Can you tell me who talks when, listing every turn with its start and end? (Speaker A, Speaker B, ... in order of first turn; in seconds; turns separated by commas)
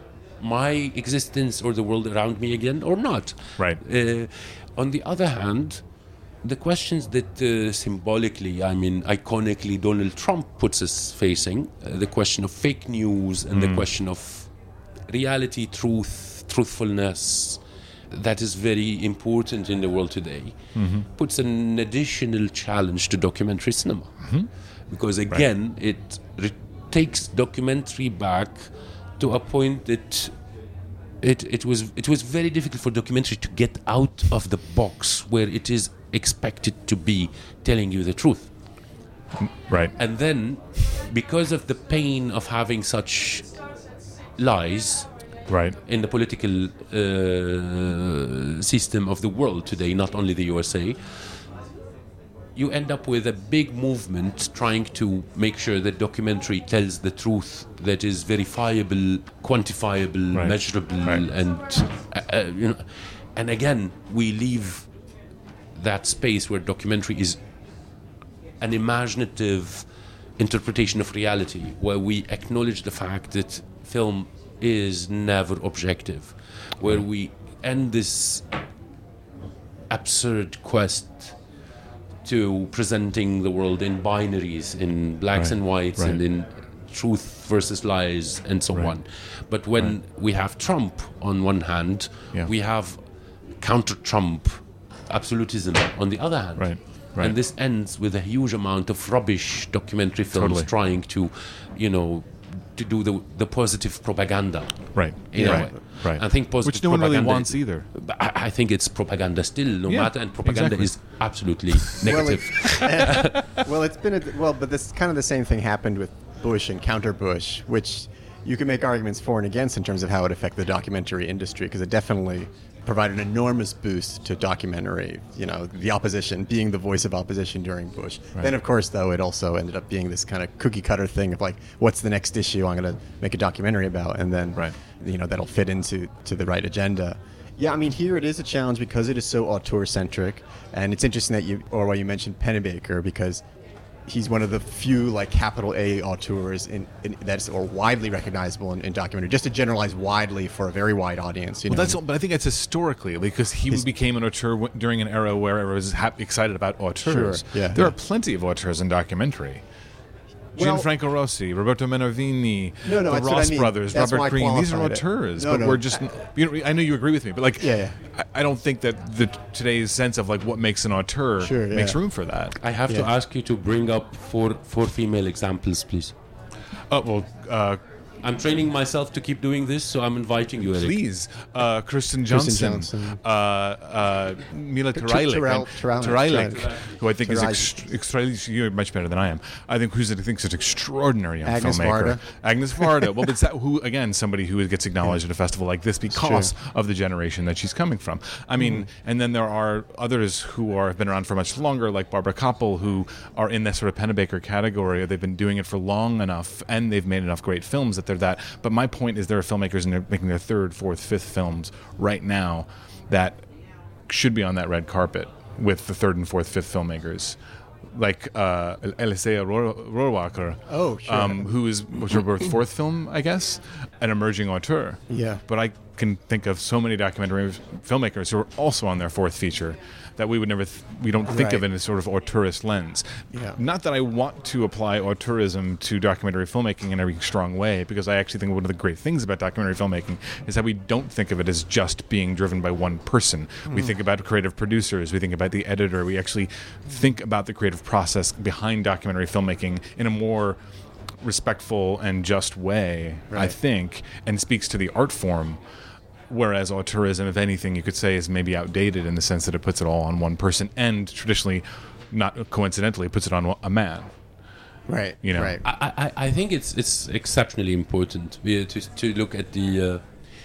Speaker A: 0.4-5.8, Speaker A: 6.4-14.5, Speaker B: 13.5-13.9, Speaker A: 15.1-30.3, Speaker B: 20.8-21.1, Speaker B: 24.2-24.5, Speaker A: 31.2-38.5, Speaker B: 39.4-39.9, Speaker A: 40.0-43.5, Speaker A: 44.4-45.1, Speaker B: 45.5-45.8, Speaker A: 45.9-51.4, Speaker A: 52.6-64.9, Speaker B: 60.3-61.2, Speaker A: 65.8-67.4, Speaker A: 68.6-69.9, Speaker A: 70.4-78.5, Speaker A: 79.9-81.4, Speaker A: 82.2-93.0, Speaker B: 85.3-86.2, Speaker A: 93.6-113.5, Speaker B: 96.6-97.4, Speaker B: 100.3-100.7, Speaker B: 104.9-107.9, Speaker C: 105.3-105.7, Speaker B: 109.9-110.9, Speaker B: 111.8-112.2, Speaker C: 112.0-143.4, Speaker C: 144.1-152.0, Speaker B: 151.7-159.6, Speaker C: 157.0-157.9, Speaker C: 160.6-160.9, Speaker B: 160.6-172.6, Speaker C: 162.8-166.0, Speaker C: 167.6-168.0, Speaker C: 171.4-172.0, Speaker A: 172.6-176.1, Speaker B: 176.9-177.8, Speaker A: 178.2-181.0, Speaker B: 180.7-213.4, Speaker C: 182.3-183.2, Speaker C: 185.0-187.7, Speaker A: 186.2-186.8, Speaker C: 191.4-192.2, Speaker C: 196.1-196.5, Speaker C: 198.6-198.8, Speaker B: 214.1-217.4, Speaker B: 217.9-250.6, Speaker C: 220.7-221.5, Speaker C: 225.1-225.4, Speaker C: 231.3-231.6, Speaker C: 233.3-233.6, Speaker C: 243.7-243.9, Speaker B: 251.2-255.6, Speaker B: 256.3-264.1, Speaker C: 264.9-265.6, Speaker B: 265.2-265.6, Speaker A: 265.6-270.0